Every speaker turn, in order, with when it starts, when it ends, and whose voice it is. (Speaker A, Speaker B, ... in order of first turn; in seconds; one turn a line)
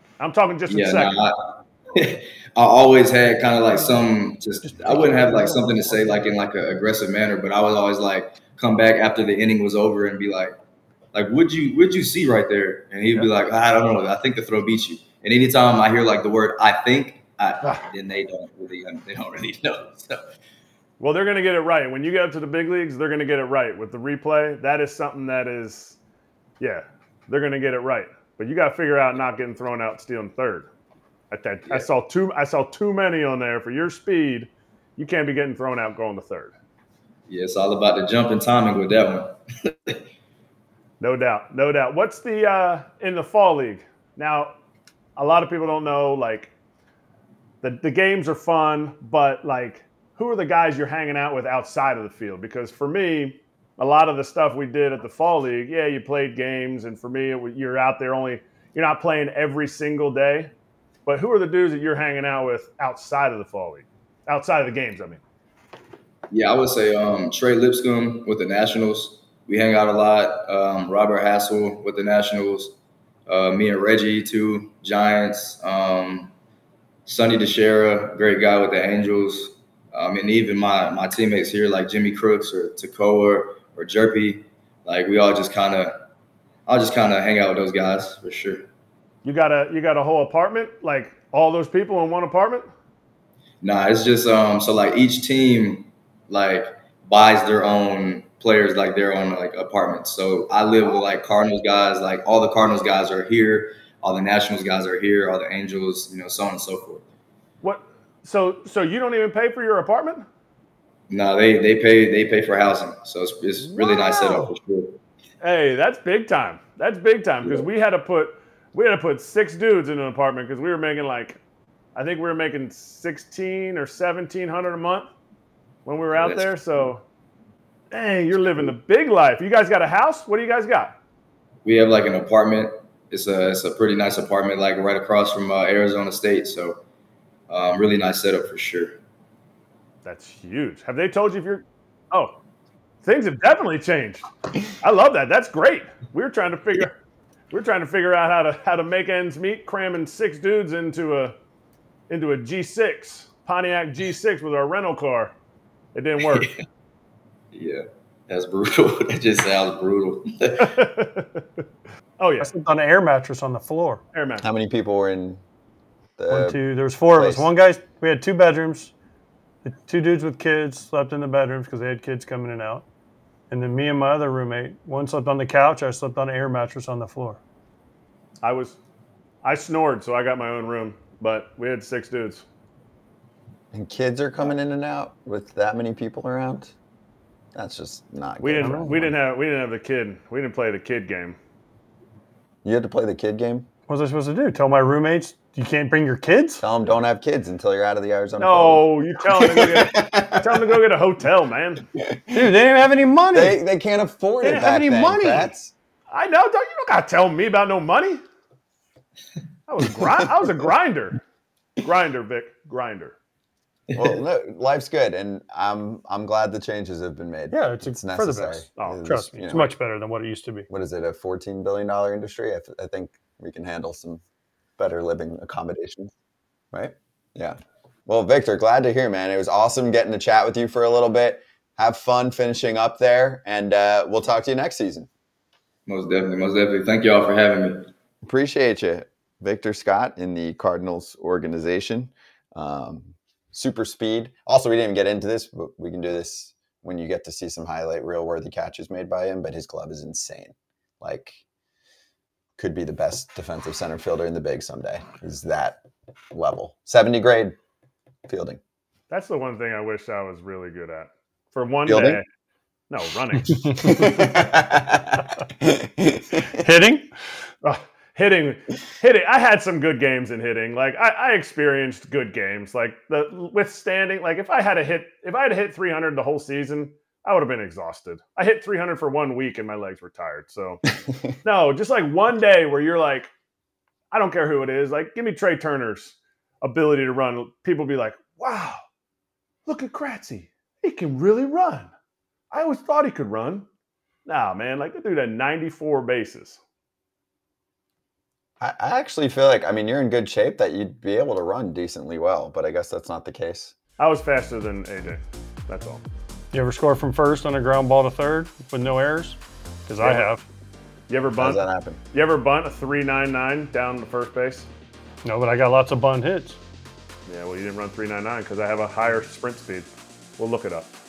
Speaker A: 0.2-1.2
Speaker B: 0.7-10.6
Speaker B: 11.1-20.2
Speaker A: 21.0-26.0
Speaker A: 26.6-30.7
Speaker A: 31.3-36.5
Speaker B: 37.3-40.0
Speaker A: 41.0-44.5
Speaker A: 45.2-46.5
Speaker A: 47.6-60.5
Speaker A: 61.1-65.2
Speaker B: 66.3-72.7
Speaker B: 73.3-76.3
Speaker B: 77.1-85.9
Speaker B: 86.7-88.7
Speaker A: 89.2-92.7
Speaker B: 93.6-107.0
Speaker A: 107.6-110.2
Speaker B: 111.1-115.0
Speaker A: 113.6-114.5
Speaker A: 115.4-121.4
Speaker A: 122.0-125.1
Speaker A: 125.8-127.0
Speaker B: 126.1-126.5
Speaker A: 127.9-130.9
Speaker B: 131.7-136.8
Speaker B: 137.5-139.0
Speaker A: 140.0-142.4
Speaker A: 143.0-144.3
Speaker A: 144.8-147.0
Speaker A: 147.5-151.3
Speaker A: 152.1-155.3
Speaker A: 155.9-156.5
Speaker B: 157.5-160.7
Speaker A: 160.6-161.6
Speaker A: 162.2-162.5
Speaker C: 162.4-164.0
Speaker A: 164.1-164.4
Speaker D: 164.4-165.4
Speaker D: 166.2-166.6
Speaker C: 166.3-168.9
Speaker D: 167.1-167.5
Speaker C: 169.7-172.8
Speaker C: 173.5-177.4
Speaker A: 178.4-178.8
Speaker A: 179.4-182.4
Speaker D: 183.7-186.7
Speaker D: 187.6-189.1
Speaker A: 188.4-191.4
Speaker C: 188.6-188.9
Speaker D: 192.6-193.7
Speaker C: 193.9-196.6
Speaker D: 196.6-200.8
Speaker A: 198.4-201.8
Speaker D: 202.0-202.5
Speaker C: 202.3-203.6
Speaker D: 203.3-205.7
Speaker C: 204.4-205.5
Speaker A: 206.1-208.2
Speaker A: 209.7-211.2
Speaker A: 211.8-213.2
Speaker D: 213.9-219.7
Speaker C: 217.5-220.7
Speaker A: 218.8-219.0
Speaker D: 220.7-224.2
Speaker D: 224.8-226.1
Speaker D: 226.7-227.6
Speaker D: 228.1-235.1
Speaker B: 235.9-237.9
Speaker D: 238.2-251.4
Speaker D: 252.6-255.8
Speaker D: 256.3-257.6
Speaker D: 258.3-258.6
Speaker A: 259.1-262.2
Speaker D: 261.9-262.2
Speaker A: 262.9-264.1
Speaker D: 263.8-266.7
Speaker C: 266.6-267.1
Speaker A: 267.6-280.8
Speaker A: 281.4-283.3
Speaker A: 284.1-288.8
Speaker A: 289.7-291.9
Speaker A: 292.5-293.7
Speaker A: 294.2-296.6
Speaker D: 298.6-303.7
Speaker A: 304.0-306.0
Speaker C: 306.5-310.4
Speaker A: 310.0-310.3
Speaker A: 311.1-314.7
Speaker D: 311.3-312.0
Speaker C: 315.2-316.6
Speaker A: 317.3-320.9